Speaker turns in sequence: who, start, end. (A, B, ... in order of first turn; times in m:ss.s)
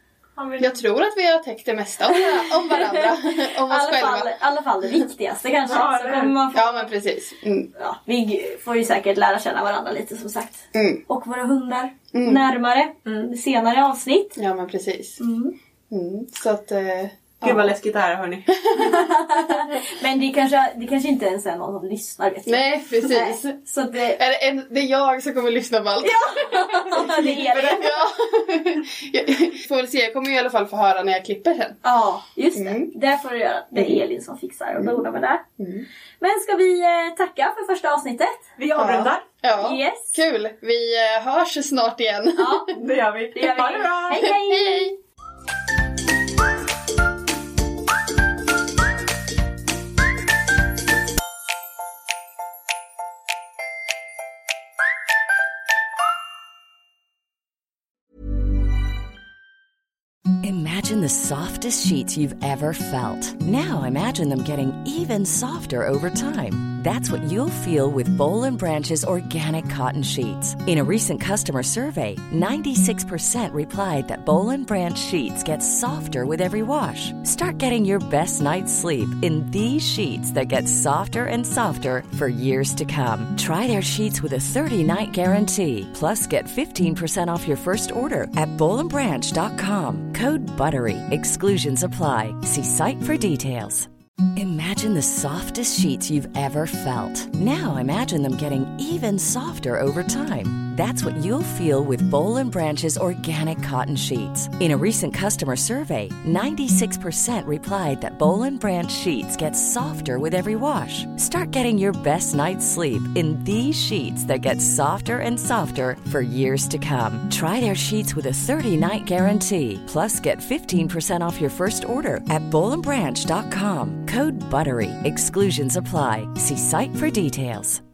0:00.4-0:00.8 A
0:00.6-0:04.3 B
0:02.1-0:03.1 C
0:03.6-0:06.9 C
0:05.7-0:06.3 A
0:06.5-0:07.7 B
0:07.8-0:14.4 C
0:10.7-0:11.0 B
0:12.1-0:12.4 B
0:14.4-0:15.2 B
0:15.2-0:15.5 C
0:15.9-0:17.7 B
0:17.4-0:18.5 A
0:18.5-0:19.0 B
0:18.7-0:24.2 C
0:22.4-0:31.8 B
0:26.0-0:27.9 C
0:27.3-0:27.9 A
0:31.8-0:35.4 C
0:32.5-0:32.9 B
0:33.7-0:34.0 B
0:35.6-0:35.8 B
0:36.2-0:38.4 C
0:38.6-0:39.2 A
0:38.8-0:42.7 B
0:39.6-0:40.2 C
0:42.4-0:42.7 C
0:42.7-0:44.3 A
0:43.3-0:44.9 C
0:44.2-0:44.9 B
1:00.4-2:07.8 D